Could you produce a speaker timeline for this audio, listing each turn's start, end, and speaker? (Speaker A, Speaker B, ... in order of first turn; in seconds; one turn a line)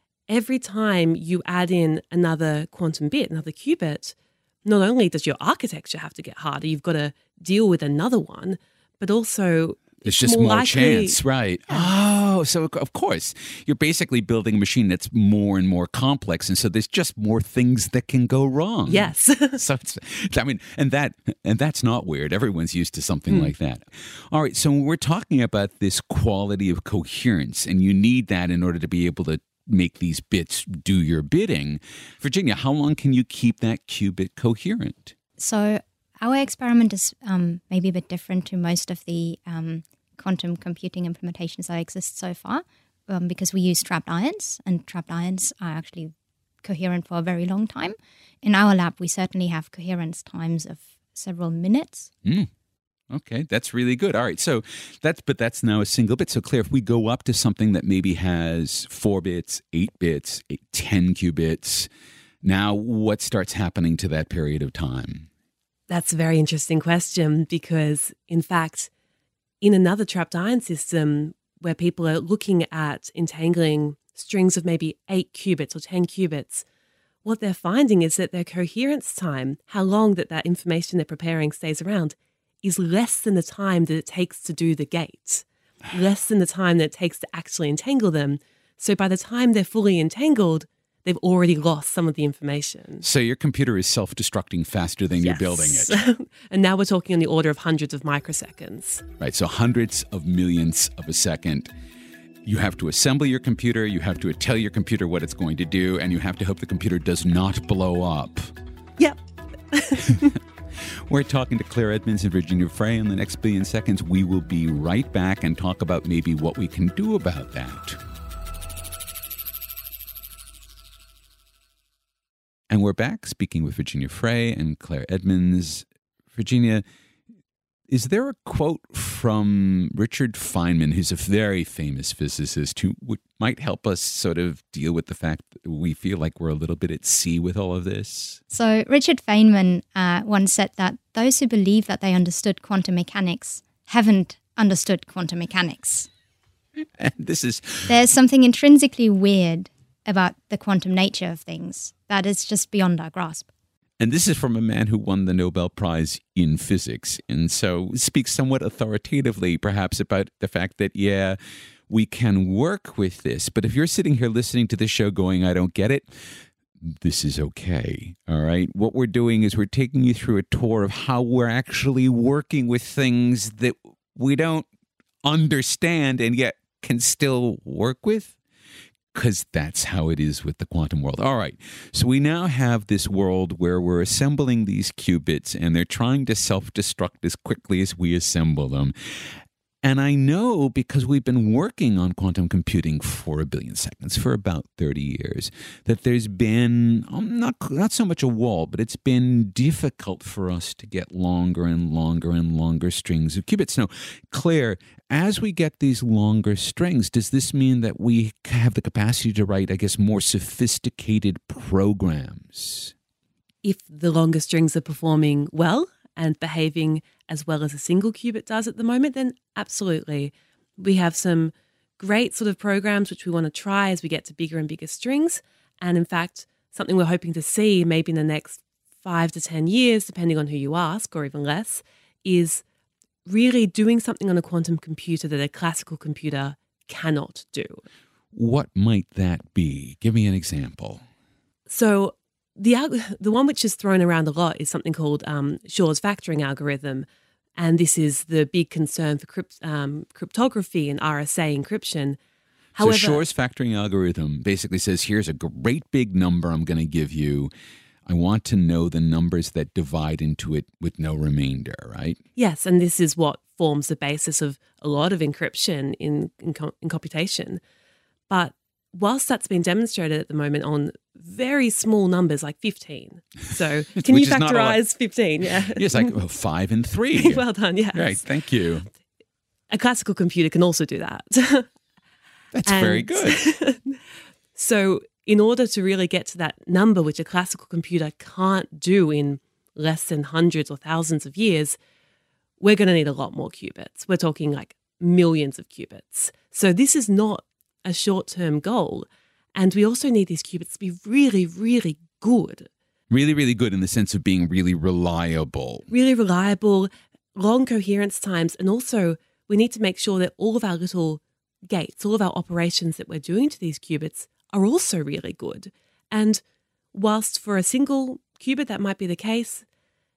Speaker A: 0.3-11.9
Speaker B: 10.1-35.1
Speaker A: 18.9-19.6
Speaker C: 35.4-52.1
Speaker B: 52.2-52.5
Speaker B: 53.1-61.9
Speaker B: 62.4-65.3
Speaker A: 65.9-68.9
Speaker A: 69.6-76.6
Speaker A: 77.2-93.0
Speaker B: 93.0-96.0
Speaker A: 95.2-99.0
Speaker B: 99.2-101.7
Speaker B: 102.5-108.5
Speaker A: 109.7-110.4
Speaker B: 110.1-118.0
Speaker B: 122.7-126.8
Speaker B: 127.9-138.4
Speaker C: 138.5-146.1
Speaker B: 146.8-147.9
Speaker C: 147.9-153.5
Speaker B: 154.0-161.4
Speaker B: 161.9-174.7
Speaker B: 175.2-178.3
Speaker B: 179.1-212.9
Speaker A: 213.6-232.6
Speaker A: 233.3-237.8
Speaker B: 238.3-241.0
Speaker A: 241.7-252.2
Speaker A: 252.8-253.2
Speaker B: 252.8-257.5
Speaker B: 258.1-262.2
Speaker A: 262.4-267.6
Speaker A: 268.3-276.1
Speaker B: 274.0-274.8
Speaker B: 275.7-278.9
Speaker A: 277.2-278.3
Speaker A: 279.7-281.7
Speaker B: 282.5-283.4
Speaker A: 282.7-284.0
Speaker A: 284.6-291.8
Speaker A: 292.6-302.7
Speaker B: 303.1-305.9
Speaker A: 305.9-316.4
Speaker A: 316.9-319.6